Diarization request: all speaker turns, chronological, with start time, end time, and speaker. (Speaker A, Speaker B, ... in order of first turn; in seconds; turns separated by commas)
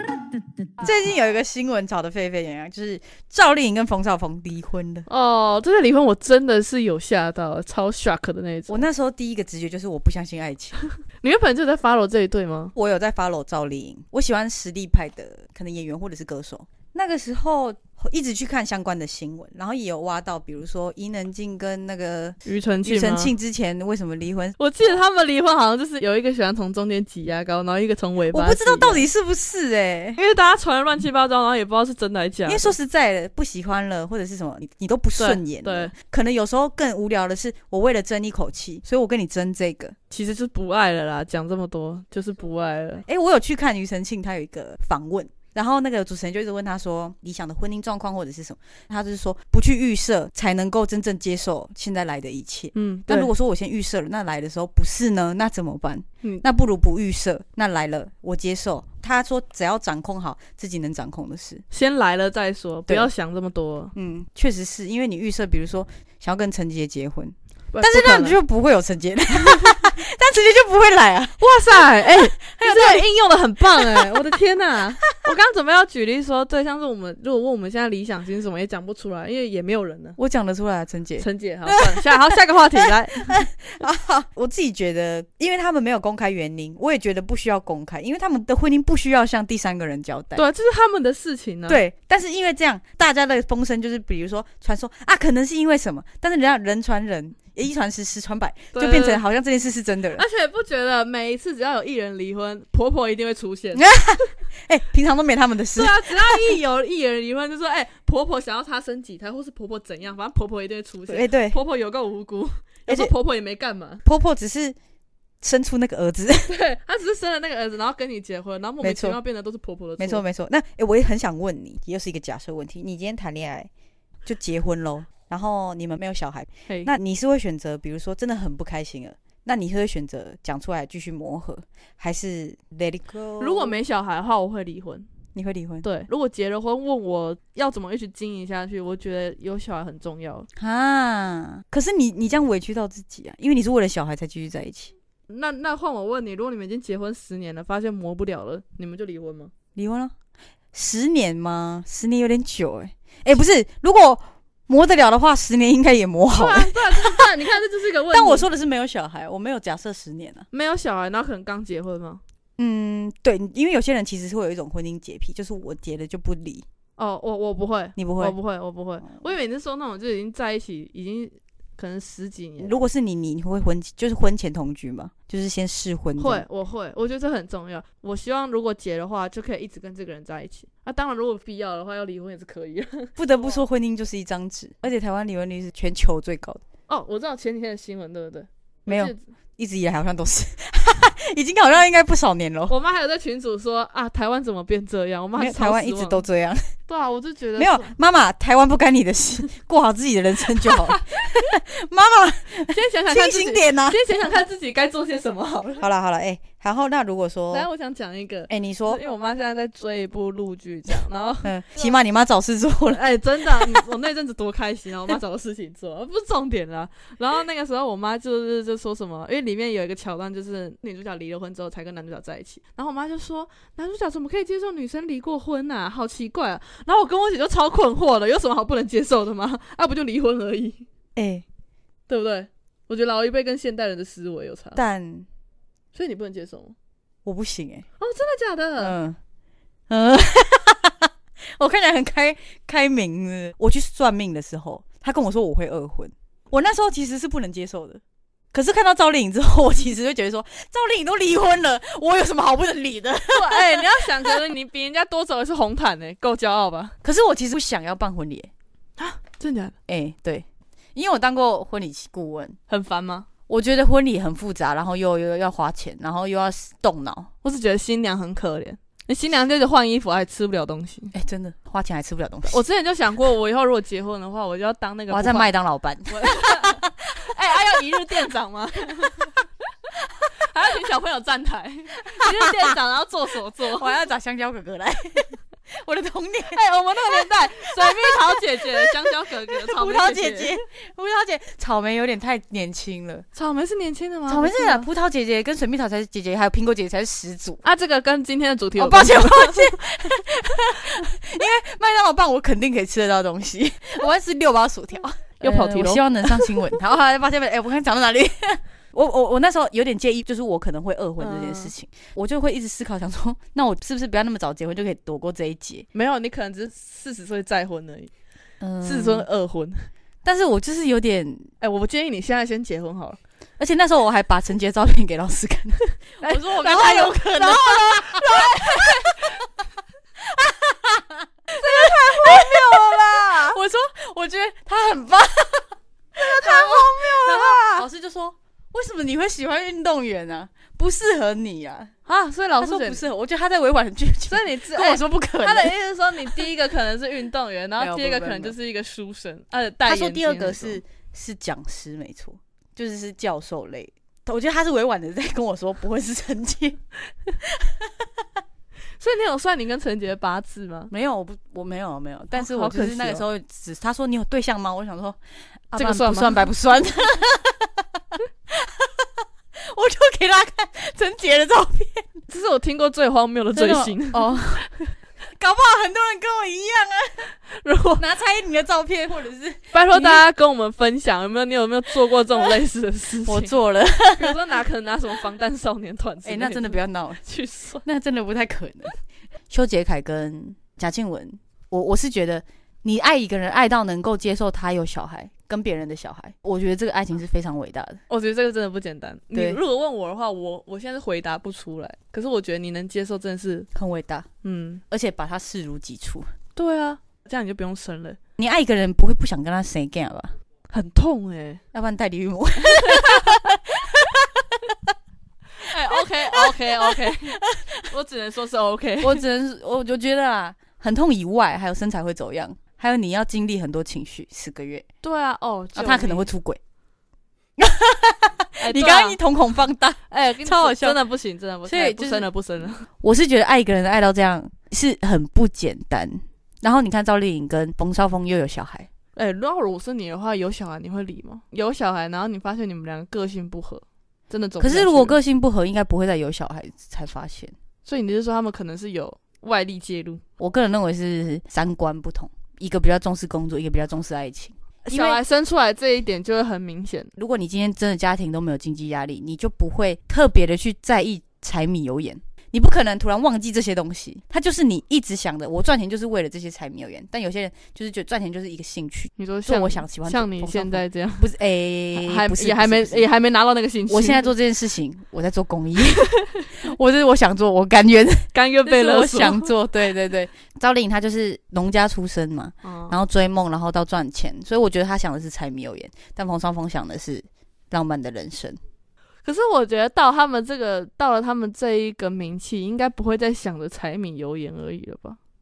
Speaker A: 0.8-5.1, Speaker B: 5.1-8.8, Speaker A: 8.7-10.8, Speaker B: 11.2-12.7, Speaker A: 12.8-24.6, Speaker B: 22.4-23.3, Speaker B: 24.6-29.1, Speaker A: 28.3-30.2, Speaker B: 30.2-32.8, Speaker A: 32.5-40.0, Speaker B: 35.2-35.9, Speaker B: 40.1-43.0, Speaker A: 43.1-61.6, Speaker B: 52.7-53.3, Speaker B: 61.7-63.9, Speaker A: 64.0-71.4, Speaker B: 67.7-68.4, Speaker B: 69.5-69.8, Speaker B: 71.4-80.2, Speaker A: 72.5-73.1, Speaker A: 73.8-74.2, Speaker A: 80.2-90.4, Speaker B: 81.2-83.4, Speaker B: 90.3-91.8, Speaker A: 91.7-100.2, Speaker B: 98.7-99.2, Speaker B: 100.2-103.9, Speaker A: 103.7-106.5, Speaker B: 105.8-114.0, Speaker A: 111.1-111.6, Speaker A: 112.9-113.1, Speaker A: 114.0-114.8, Speaker A: 115.4-116.5, Speaker B: 116.5-120.2, Speaker A: 118.8-119.2, Speaker A: 120.0-123.7, Speaker A: 124.3-133.8, Speaker B: 133.4-135.1, Speaker A: 135.3-135.9, Speaker B: 135.8-140.5, Speaker A: 140.6-144.9, Speaker B: 145.3-149.5, Speaker A: 149.8-150.1, Speaker A: 150.7-157.3, Speaker B: 156.3-158.5, Speaker A: 158.1-160.5, Speaker B: 160.5-162.2, Speaker A: 162.6-166.7, Speaker B: 167.0-172.8, Speaker A: 168.0-168.4, Speaker A: 172.6-176.4, Speaker B: 176.2-183.6, Speaker A: 183.2-186.6, Speaker B: 186.9-189.3, Speaker A: 188.9-192.7, Speaker B: 192.7-196.2, Speaker A: 195.4-196.8, Speaker B: 196.9-197.9, Speaker A: 197.6-204.0, Speaker B: 200.7-201.0, Speaker B: 202.7-205.9, Speaker A: 205.8-207.7, Speaker B: 207.5-211.9, Speaker A: 208.5-209.0, Speaker A: 211.4-213.8, Speaker B: 212.9-230.8, Speaker A: 231.2-231.4, Speaker B: 232.1-234.8, Speaker A: 234.8-235.3, Speaker B: 235.9-236.8, Speaker A: 237.2-237.8, Speaker B: 238.0-238.9, Speaker A: 238.8-239.2, Speaker A: 239.9-248.0, Speaker A: 248.5-254.1, Speaker B: 253.3-256.9, Speaker A: 257.0-258.5, Speaker B: 259.0-259.8, Speaker A: 259.9-262.6, Speaker B: 262.7-263.3, Speaker A: 263.5-267.3, Speaker B: 267.4-271.1, Speaker A: 271.1-272.6, Speaker B: 272.5-275.5, Speaker A: 275.1-277.1, Speaker B: 276.1-279.3, Speaker B: 280.5-283.9, Speaker A: 282.2-282.7, Speaker A: 283.8-288.9, Speaker B: 286.5-290.5, Speaker A: 289.5-293.2, Speaker B: 293.4-294.9, Speaker A: 294.3-297.6, Speaker B: 297.6-299.8, Speaker A: 298.8-315.9, Speaker B: 305.1-306.6, Speaker B: 311.2-311.7, Speaker B: 315.9-318.1, Speaker A: 318.6-319.3, Speaker B: 318.8-319.9, Speaker A: 320.2-321.5, Speaker B: 321.6-323.2, Speaker A: 323.6-329.3, Speaker B: 326.2-329.1, Speaker A: 330.2-341.9, Speaker B: 331.5-333.6, Speaker B: 336.2-337.9, Speaker B: 342.1-343.0, Speaker A: 342.6-345.7, Speaker B: 344.3-350.8, Speaker A: 347.8-348.6, Speaker A: 349.9-356.8, Speaker A: 357.4-357.9, Speaker B: 359.0-360.9, Speaker A: 360.9-365.2, Speaker B: 362.3-363.2, Speaker A: 365.7-372.1, Speaker B: 365.7-366.4, Speaker B: 372.3-374.9, Speaker A: 373.5-374.7, Speaker A: 375.3-377.3, Speaker B: 377.5-378.0, Speaker A: 378.0-380.2, Speaker B: 379.7-383.5, Speaker A: 383.3-384.4, Speaker B: 384.2-387.8, Speaker A: 386.2-387.2, Speaker A: 387.8-389.0, Speaker A: 389.5-398.0, Speaker B: 398.1-403.7, Speaker A: 399.3-399.6, Speaker A: 403.7-404.3, Speaker B: 404.4-404.8, Speaker A: 404.9-406.3, Speaker B: 406.6-408.2, Speaker A: 408.4-410.3, Speaker B: 410.7-411.6, Speaker A: 411.7-414.9, Speaker B: 412.6-413.4, Speaker B: 415.6-419.2, Speaker A: 416.9-417.7, Speaker A: 419.0-424.9, Speaker B: 425.0-426.3, Speaker A: 425.8-426.6, Speaker A: 427.6-431.0, Speaker B: 428.6-429.2, Speaker B: 430.1-432.9, Speaker A: 431.7-432.3, Speaker A: 433.0-438.9, Speaker B: 439.1-445.2, Speaker A: 444.6-447.5, Speaker B: 447.9-450.2, Speaker A: 450.4-455.2, Speaker B: 454.9-457.1, Speaker A: 457.2-473.1, Speaker B: 469.2-471.3, Speaker B: 471.9-474.3, Speaker A: 473.9-488.6, Speaker B: 478.3-479.5, Speaker B: 482.6-483.0, Speaker B: 489.2-495.2